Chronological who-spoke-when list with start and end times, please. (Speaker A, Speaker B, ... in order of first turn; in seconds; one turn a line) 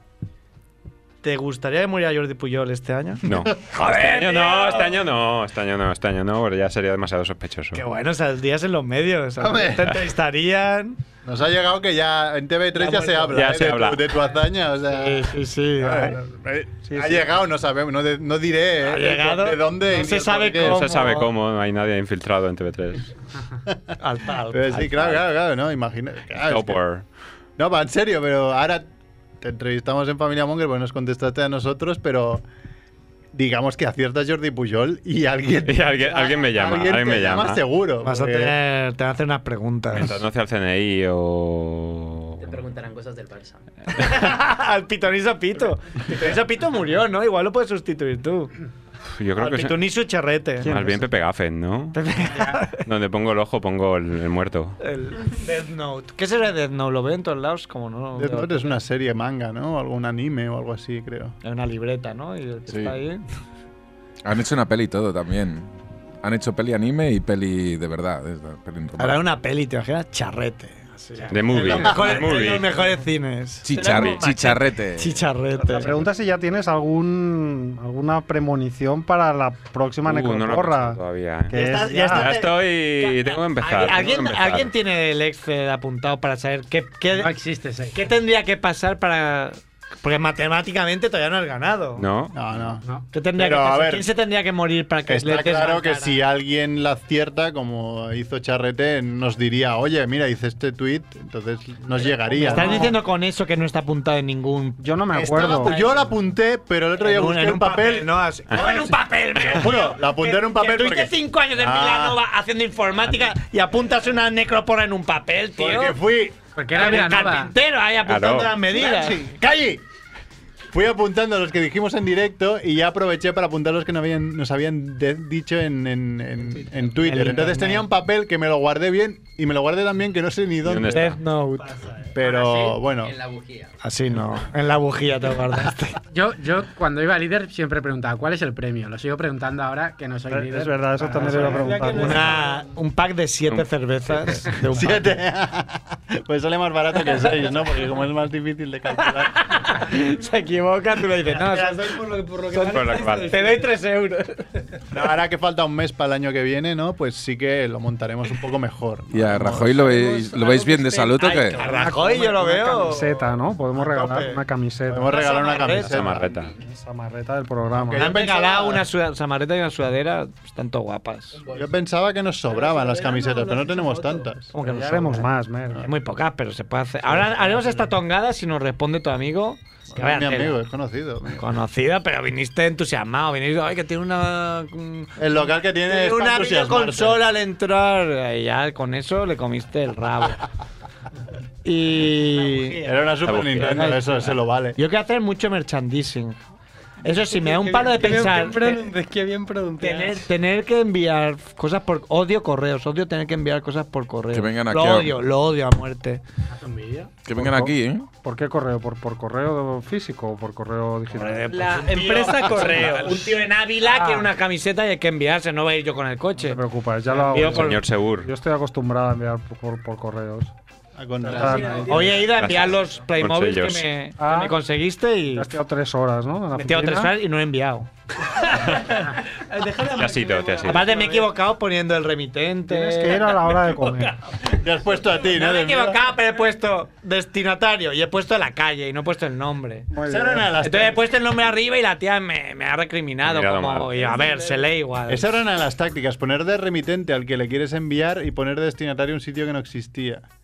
Speaker A: 1.2-5.0
Speaker B: 3.2-7.8
Speaker A: 7.7-11.0
Speaker C: 9.4-10.0
Speaker C: 11.2-20.9
Speaker A: 12.8-13.5
Speaker B: 13.3-14.2
Speaker A: 14.9-16.2
Speaker D: 16.9-17.3
Speaker A: 18.8-21.3
Speaker B: 20.6-23.1
Speaker A: 24.0-25.2
Speaker C: 24.5-26.8
Speaker B: 26.4-27.1
Speaker C: 27.6-28.9
Speaker C: 29.4-32.4
Speaker C: 33.3-38.6
Speaker B: 35.7-37.6
Speaker A: 38.0-40.2
Speaker B: 39.9-42.6
Speaker E: 42.4-43.6
Speaker A: 43.9-48.5
Speaker B: 49.1-49.8
Speaker A: 49.4-50.9
Speaker D: 50.6-51.1
Speaker B: 50.6-52.0
Speaker A: 51.9-52.8
Speaker F: 52.3-52.6
Speaker B: 52.8-54.8
Speaker A: 54.8-58.8
Speaker C: 58.2-61.4
Speaker A: 61.4-63.2
Speaker G: 62.7-63.0
Speaker G: 64.2-65.7
Speaker G: 66.2-69.2
Speaker A: 69.0-73.7
Speaker B: 71.3-72.7
Speaker G: 73.6-75.2
Speaker H: 73.7-74.6
Speaker A: 75.0-75.9
Speaker D: 75.7-82.3
Speaker B: 80.0-84.7
Speaker A: 81.5-87.3
Speaker F: 87.1-88.0
Speaker A: 87.9-92.0
Speaker B: 92.0-92.4
Speaker C: 92.3-92.8
Speaker F: 92.8-93.1
Speaker A: 93.1-96.2
Speaker C: 93.4-94.1
Speaker C: 95.1-103.0
Speaker D: 102.3-103.0
Speaker A: 102.5-104.9
Speaker D: 104.8-105.8
Speaker C: 105.1-108.1
Speaker A: 105.4-105.9
Speaker A: 107.0-116.0
Speaker B: 108.5-108.8
Speaker C: 109.4-112.2
Speaker C: 115.6-116.4
Speaker F: 116.5-117.5
Speaker A: 116.7-119.3
Speaker B: 118.0-118.6
Speaker C: 118.7-119.8
Speaker C: 120.7-131.2
Speaker H: 126.4-126.7
Speaker A: 127.0-127.9
Speaker B: 130.6-131.2
Speaker A: 130.9-131.7
Speaker H: 131.6-132.2
Speaker C: 132.2-133.1
Speaker E: 132.2-133.7
Speaker A: 133.8-136.0
Speaker F: 136.1-141.7
Speaker D: 140.3-142.3
Speaker H: 141.1-142.7
Speaker A: 141.9-145.2
Speaker C: 144.7-149.4
Speaker A: 149.0-152.0
Speaker H: 151.3-153.8
Speaker A: 152.5-154.4
Speaker B: 152.7-153.3
Speaker C: 154.9-160.0
Speaker G: 159.1-161.6
Speaker H: 159.8-161.9
Speaker A: 161.2-164.4
Speaker D: 161.7-165.3
Speaker C: 164.9-166.4
Speaker A: 165.1-166.1
Speaker B: 165.9-166.5
Speaker D: 166.5-168.2
Speaker C: 167.8-168.8
Speaker A: 167.9-171.4
Speaker C: 171.5-174.5
Speaker H: 172.5-174.3
Speaker A: 174.5-180.6
Speaker D: 174.6-175.9
Speaker C: 177.1-177.8
Speaker C: 179.9-181.4
Speaker A: 181.4-185.2
Speaker C: 185.2-187.2
Speaker A: 185.9-190.4
Speaker A: 191.7-192.9
Speaker C: 192.8-194.8
Speaker B: 193.2-194.0
Speaker A: 193.5-196.4
Speaker A: 197.0-198.9
Speaker H: 197.1-200.3
Speaker A: 199.8-206.2
Speaker G: 204.3-205.2
Speaker F: 206.5-207.1
Speaker G: 207.2-208.1
Speaker D: 207.4-211.7
Speaker A: 211.1-216.6
Speaker H: 211.5-213.3
Speaker D: 213.9-214.3
Speaker D: 216.4-220.5
Speaker A: 217.2-217.8
Speaker B: 217.5-218.3
Speaker C: 221.0-222.0
Speaker H: 221.2-222.9
Speaker D: 221.3-222.2
Speaker A: 221.9-225.5
Speaker B: 222.3-223.9
Speaker D: 224.2-224.6
Speaker D: 225.3-227.1
Speaker A: 226.6-227.9
Speaker H: 228.3-231.3
Speaker B: 229.9-230.9
Speaker A: 230.7-233.4
Speaker D: 232.7-234.2
Speaker C: 234.5-236.0
Speaker A: 235.2-239.9
Speaker D: 239.9-240.6
Speaker C: 240.0-241.0
Speaker A: 240.6-245.4
Speaker B: 243.2-243.9
Speaker H: 243.9-244.7
Speaker C: 245.1-250.3